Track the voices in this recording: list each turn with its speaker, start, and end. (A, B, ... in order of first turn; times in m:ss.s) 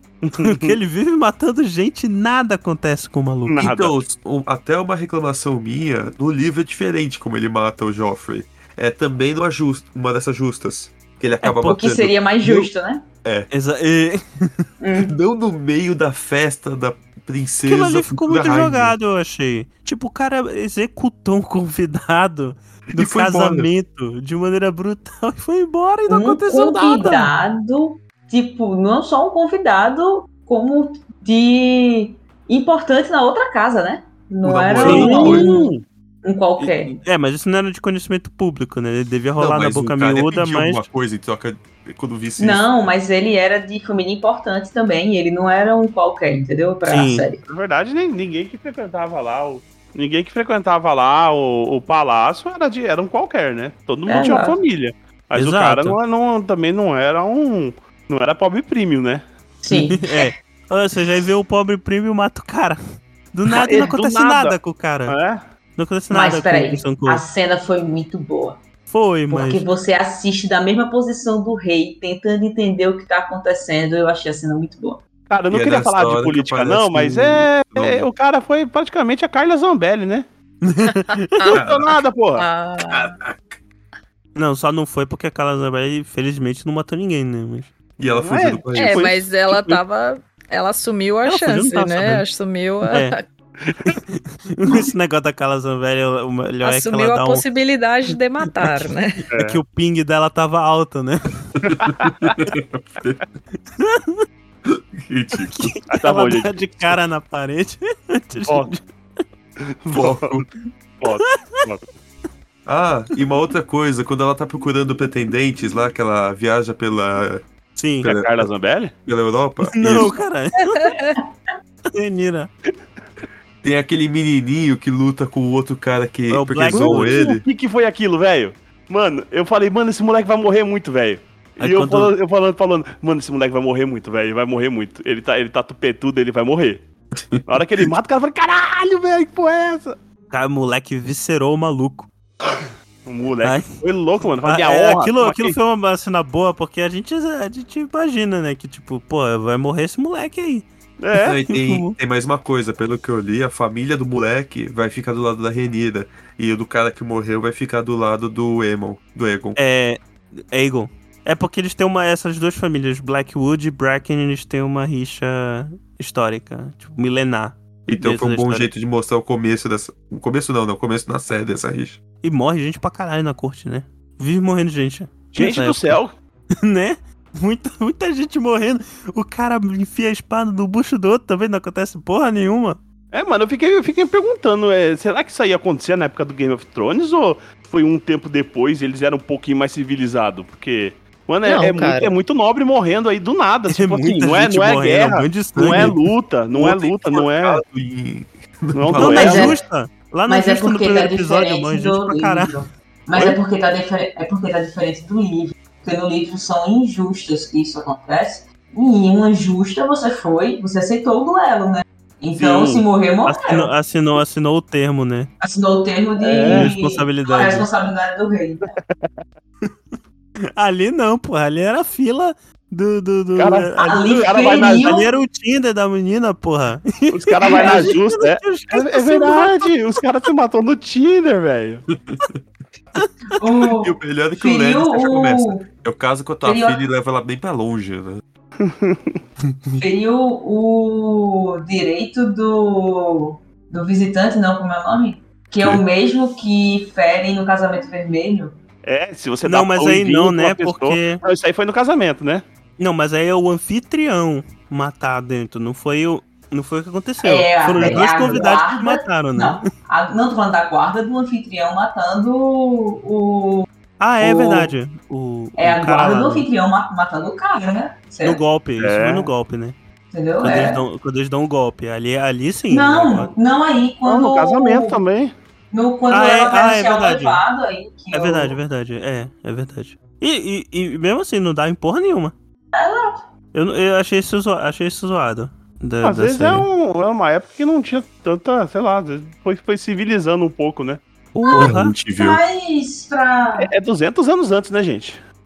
0:00.2-0:00.7 A
0:00.4-0:03.7 B
0:03.5-0:04.0 A
0:03.6-0:12.7 C
0:11.4-0:11.8 B
0:11.7-0:13.0 D
0:13.2-0:13.5 C
0:13.5-0:14.7 B
0:14.8-0:15.1 D
0:15.0-0:19.0 C
0:17.6-0:27.3 B
0:22.9-0:23.7 C
0:26.1-0:35.7 D
0:34.4-0:35.6 C
0:34.8-0:35.8 A
0:34.8-0:35.4 B
0:36.2-0:36.9 D
0:36.6-0:40.9 B
0:39.4-0:42.6 C
0:42.4-0:47.4 D
0:46.8-0:47.3 B
0:47.5-0:59.2 A
0:54.1-0:54.6 D
0:55.3-0:56.0 B
0:59.6-1:00.3 D
0:59.7-1:02.8 B
1:03.3-1:05.2 B
1:03.6-1:04.6 A
1:05.1-1:05.4 A
1:05.8-1:07.2 B
1:06.1-1:08.6 D
1:08.9-1:09.6 B
1:09.3-1:15.0 D
1:15.3-1:20.3 A
1:15.5-1:18.1 C
1:20.6-1:21.5 B
1:21.4-1:21.6 E
1:21.5-1:22.4 A
1:21.5-1:21.9 C
1:22.4-1:23.2 E
1:22.9-1:23.6 C
1:24.4-1:27.7 B
1:28.0-1:29.3 C
1:28.1-1:29.0 A
1:28.7-1:33.2 E
1:31.3-1:32.2 B
1:32.9-1:33.1 B
1:33.6-1:33.9 A
1:33.8-1:37.4 B
1:36.6-1:39.3 E
1:38.6-1:41.6 B
1:39.3-1:39.6 A
1:41.6-1:42.1 A
1:41.7-1:43.2 C
1:43.8-1:44.2 B
1:44.6-1:45.7 C
1:45.4-1:48.9 B
1:45.9-1:46.5 A
1:48.4-1:48.7 A
1:49.8-1:50.4 A
1:49.9-1:50.4 C
1:51.0-1:51.8 A
1:51.2-1:51.6 B
1:52.6-1:57.4 C
1:57.8-1:58.1 B
1:58.0-1:58.5 C
1:58.0-1:58.9 A
1:59.0-2:00.1 C
1:59.6-2:00.9 B
2:00.6-2:01.2 E
2:01.9-2:02.5 B
2:03.6-2:07.4 C
2:06.3-2:07.2 B
2:06.7-2:16.8 A
2:11.6-2:12.1 B
2:17.2-2:17.9 C
2:17.4-2:20.0 A
2:20.3-2:22.1 B
2:23.0-2:25.6 A
2:23.4-2:23.7 B
2:24.4-2:30.6 B
2:31.0-2:31.4 A
2:31.2-2:39.6 C
2:31.5-2:32.0 B
2:39.6-2:48.7 B
2:47.9-2:52.0 C
2:52.2-2:56.0 B
2:55.3-2:56.1 A
2:56.6-3:02.8 B
3:03.1-3:17.6 A
3:11.4-3:12.2 E
3:13.7-3:16.0 B
3:15.6-3:15.9 C
3:16.5-3:19.6 C
3:18.7-3:19.5 A
3:18.9-3:22.6 B
3:20.3-3:33.7 D
3:32.4-3:32.8 A
3:33.3-3:35.3 B
3:35.4-3:38.6 D
3:36.2-3:36.7 A
3:36.5-3:37.7 B
3:39.6-3:39.9 B
3:40.6-3:50.0 B
3:43.4-3:45.0 A
3:43.8-3:45.1 D
3:47.1-3:51.9 A
3:47.4-3:48.0 D
3:52.0-3:52.4 C
3:53.4-3:55.6 D
3:53.8-3:58.2 C
3:56.4-3:56.8 D
3:58.6-3:59.2 A
3:59.8-4:08.6 D
4:08.8-4:12.4 A
4:09.4-4:11.2 B
4:12.8-4:19.6 B
4:17.2-4:23.7 D
4:17.8-4:18.4 A
4:24.0-4:26.5 B
4:24.2-4:24.6 D
4:25.6-4:28.4 D
4:28.2-4:29.8 B
4:28.8-4:29.3 A
4:30.1-4:30.8 D
4:30.4-4:33.3 B
4:32.7-4:35.0 D
4:34.0-4:35.3 A
4:35.7-4:38.6 D
4:36.1-4:37.4 B
4:38.1-4:42.3 B
4:42.7-4:43.2 D
4:43.5-4:46.7 B
4:46.0-4:51.0 A
4:51.3-4:51.9 B
4:51.4-4:53.7 D
4:51.6-4:52.4 C
4:53.6-4:55.2 A